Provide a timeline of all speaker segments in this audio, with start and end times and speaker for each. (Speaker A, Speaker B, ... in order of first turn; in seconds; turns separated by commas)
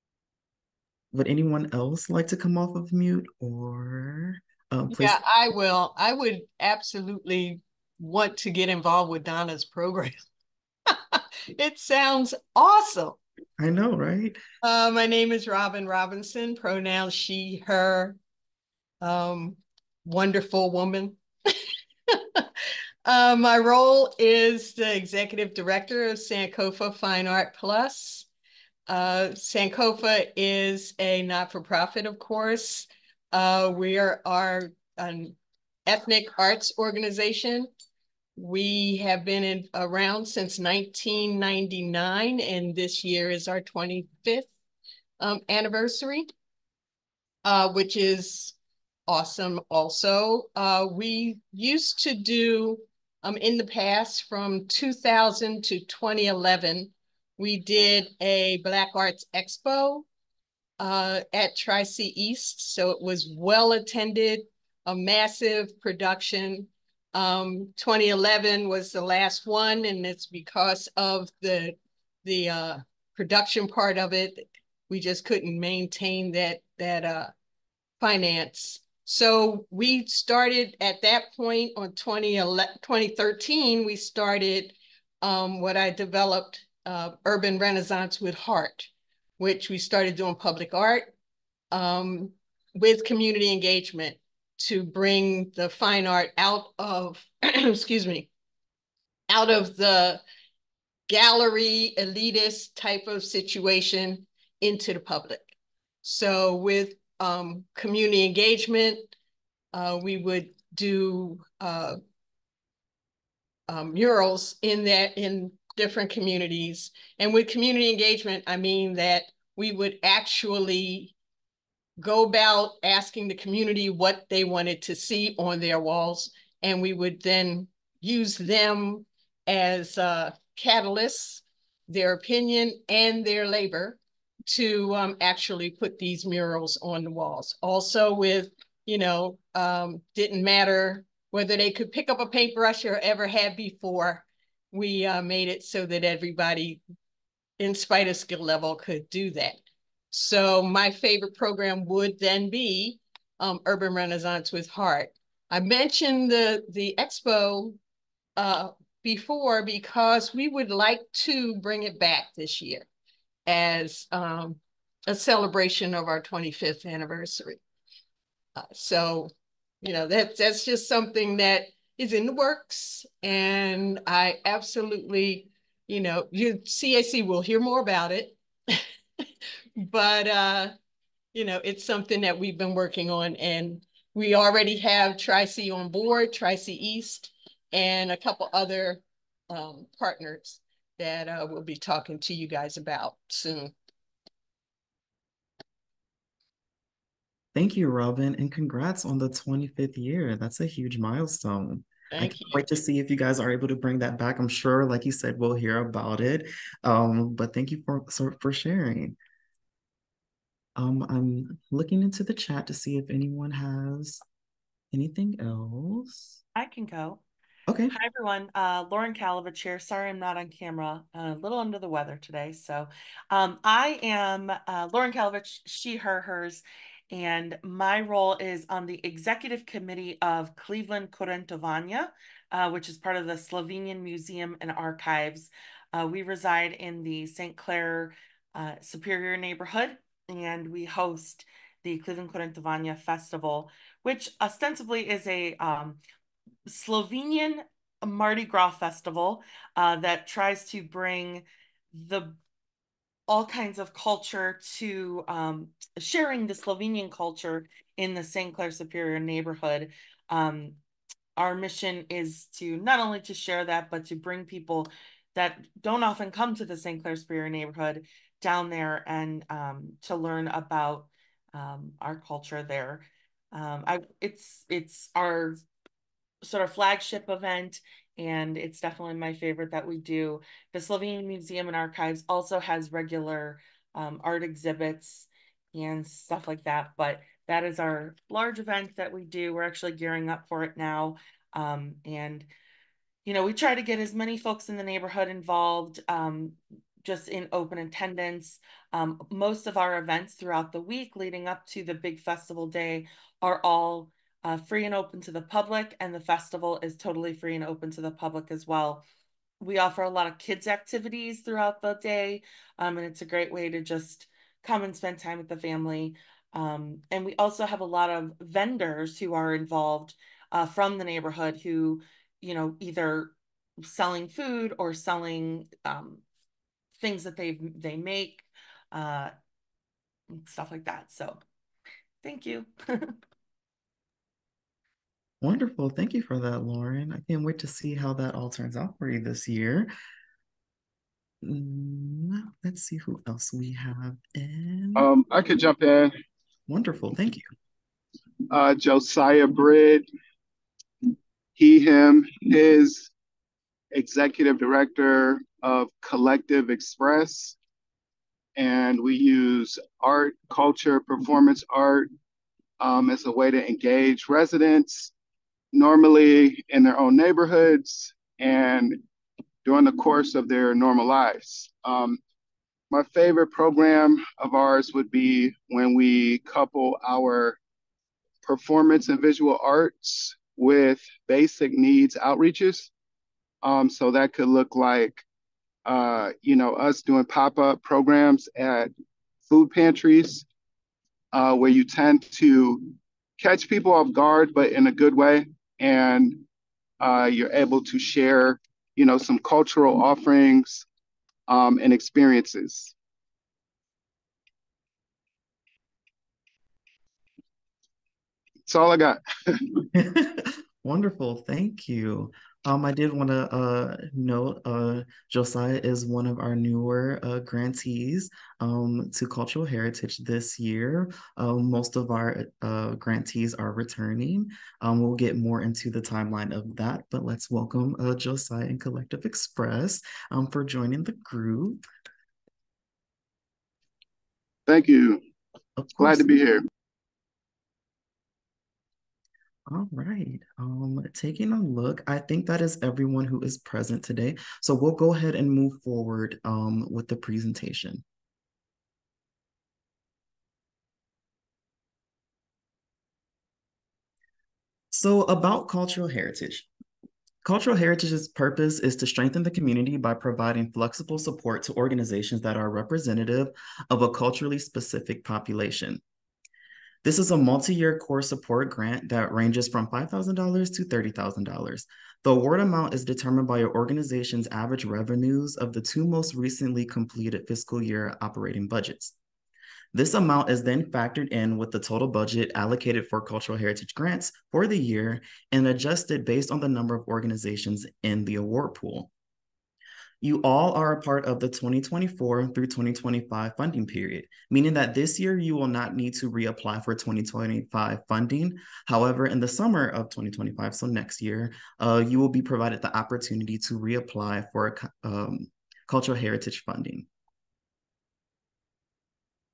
Speaker A: 1.1-5.2, Speaker B: 4.9-10.2, Speaker B: 11.1-13.2, Speaker A: 13.6-14.4, Speaker B: 14.6-18.2, Speaker B: 19.0-21.2, Speaker B: 22.1-22.4, Speaker B: 23.0-28.3, Speaker B: 28.9-37.7, Speaker B: 38.4-44.5, Speaker B: 45.2-46.3, Speaker B: 47.4-48.5, Speaker B: 49.1-60.1, Speaker B: 60.8-77.3, Speaker B: 78.0-91.1, Speaker B: 91.7-98.3, Speaker B: 99.3-100.2, Speaker B: 101.1-105.5, Speaker B: 106.0-109.1, Speaker B: 109.7-112.0, Speaker B: 113.7-121.1, Speaker B: 122.0-146.8, Speaker B: 147.6-149.6, Speaker B: 150.1-157.8, Speaker B: 158.3-162.9, Speaker B: 163.4-167.6, Speaker B: 168.5-178.8, Speaker B: 179.8-180.8, Speaker B: 181.3-193.7, Speaker A: 197.5-209.2, Speaker B: 202.1-202.6, Speaker A: 210.8-214.2, Speaker A: 214.9-216.3, Speaker C: 216.6-217.2, Speaker A: 217.7-217.9, Speaker C: 217.9-246.0, Speaker C: 246.7-252.4, Speaker C: 253.3-260.8, Speaker C: 261.4-275.6, Speaker C: 276.4-292.5, Speaker C: 293.2-309.0, Speaker C: 309.6-326.2, Speaker C: 327.0-329.3, Speaker C: 330.3-331.4, Speaker C: 332.2-333.2, Speaker A: 335.4-339.9, Speaker A: 341.4-345.1, Speaker D: 344.9-346.1, Speaker A: 346.7-347.4, Speaker D: 348.5-350.1, Speaker D: 351.6-353.1, Speaker D: 353.9-357.6, Speaker D: 358.6-362.1, Speaker D: 362.8-365.1, Speaker D: 365.7-369.0, Speaker D: 369.6-372.2, Speaker D: 372.9-377.6, Speaker D: 378.4-382.9, Speaker D: 383.6-385.2, Speaker D: 385.8-388.9, Speaker D: 389.5-390.4, Speaker D: 391.3-396.4, Speaker D: 397.0-400.9, Speaker D: 401.5-402.9, Speaker D: 408.6-409.8, Speaker A: 409.9-431.8, Speaker D: 434.7-435.2, Speaker A: 435.8-436.2, Speaker D: 436.0-436.6, Speaker A: 439.7-448.0, Speaker A: 454.9-456.7, Speaker A: 457.4-466.0, Speaker A: 467.0-479.1, Speaker A: 479.9-489.1, Speaker A: 490.2-507.1